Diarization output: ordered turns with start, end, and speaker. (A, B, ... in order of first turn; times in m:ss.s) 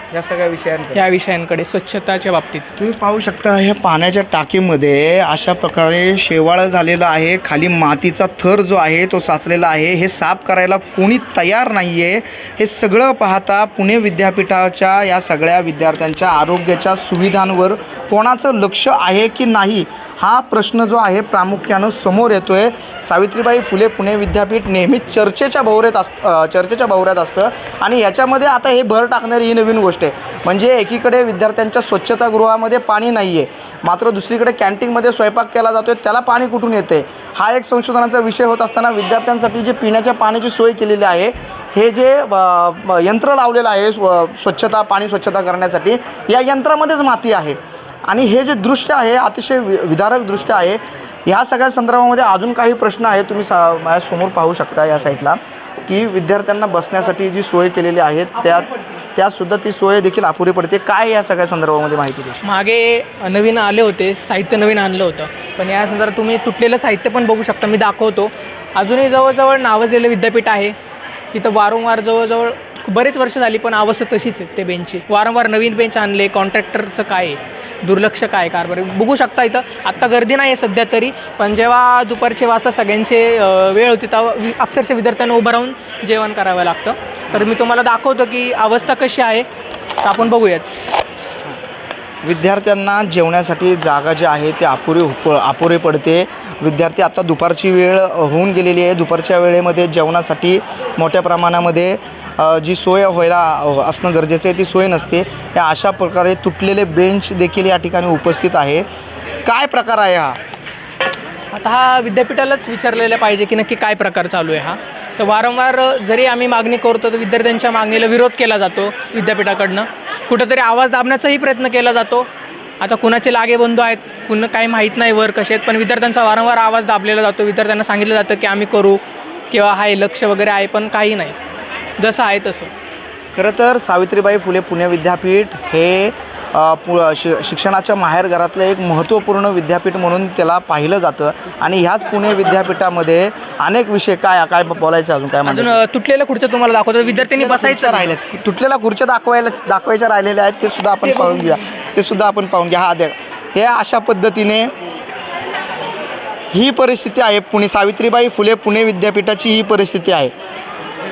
0:00.1-0:01.0 A
0:00.9-0:02.7 B
0:02.8-1:02.4 A
0:58.4-0:59.0 B
1:02.4-1:10.7 B
1:11.3-1:29.5 B
1:30.0-1:31.0 B
1:32.2-1:48.8 A
1:49.4-1:50.4 A
1:51.5-2:02.3 B
2:02.8-2:11.4 B
2:12.0-2:12.7 B
2:13.4-2:25.8 A
2:25.4-2:28.2 B
2:27.1-2:34.7 A
2:31.0-2:31.6 B
2:36.5-2:40.3 A